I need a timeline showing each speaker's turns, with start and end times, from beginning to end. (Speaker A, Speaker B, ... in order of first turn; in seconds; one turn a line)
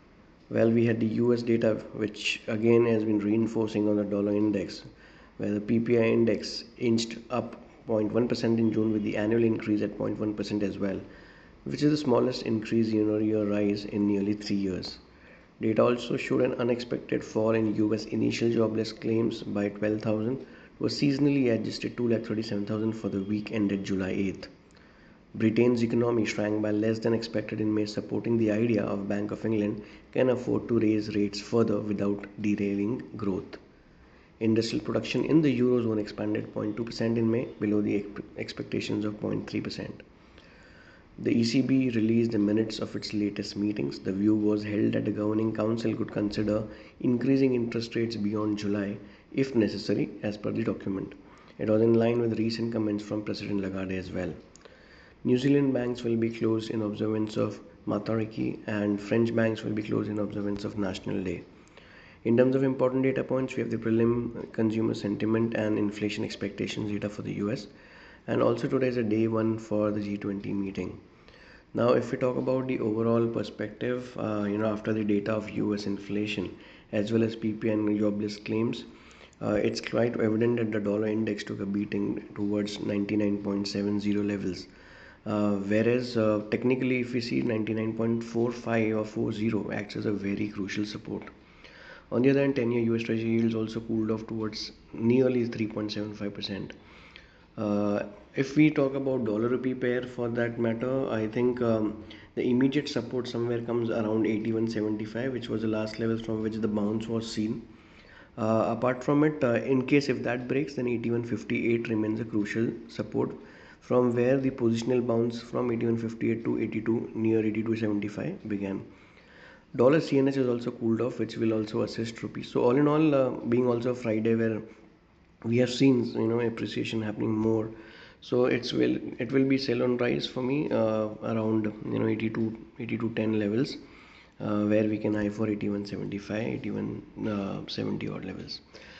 Speaker A: 0.5-4.8
Speaker A: 5.4-11.0
Speaker A: 11.6-15.0
Speaker A: 15.6-24.5
Speaker A: 25.3-33.6
Speaker A: 34.4-40.0
Speaker A: 41.2-54.4
Speaker A: 55.2-61.4
Speaker A: 62.2-67.7
Speaker A: 68.3-71.0
Speaker A: 71.7-78.9
Speaker A: 79.4-84.7
Speaker A: 85.2-91.3
Speaker A: 92.1-96.7
Speaker A: 97.6-107.6
Speaker A: 108.4-118.8
Speaker A: 119.7-124.6
Speaker A: 125.4-133.8
Speaker A: 134.4-138.6